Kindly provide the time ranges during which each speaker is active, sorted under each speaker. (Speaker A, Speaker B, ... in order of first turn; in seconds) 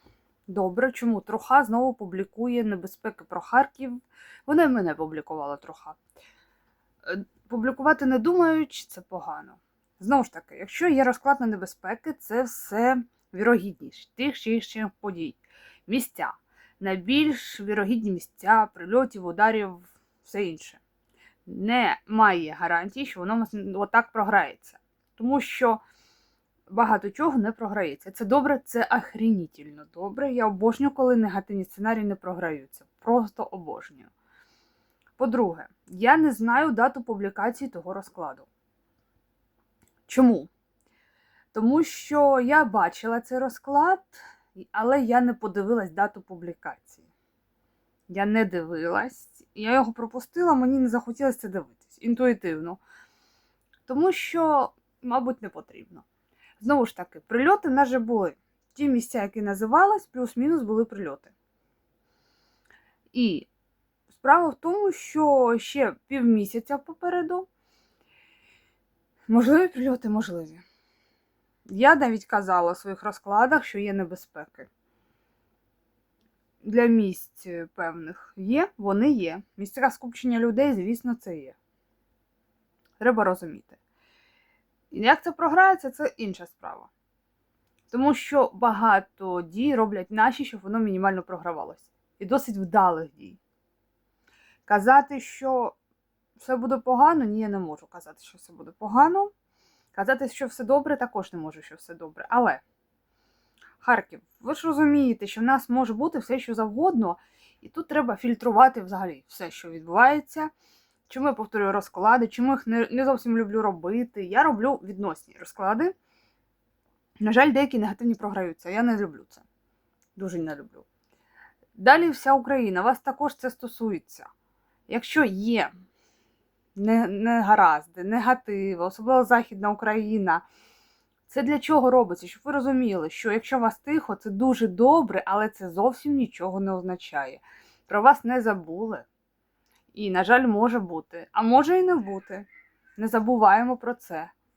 Speaker A: 0.5-6.0, 7.0-20.8, 21.4-25.8, 26.7-34.1, 35.2-38.5, 40.1-40.5, 41.5-47.0, 48.1-52.8, 53.9-56.0, 56.6-61.3, 63.1-63.5, 64.1-67.5, 69.3-70.6, 71.7-74.7, 76.6-81.5, 83.0-83.8, 84.9-86.9, 87.9-93.4, 94.7-95.8, 96.4-99.3, 99.9-102.6, 103.8-110.5, 111.1-115.9, 117.2-119.4, 120.2-120.8, 121.8-124.3, 124.9-125.7, 126.8-130.4, 131.3-139.0, 139.9-144.3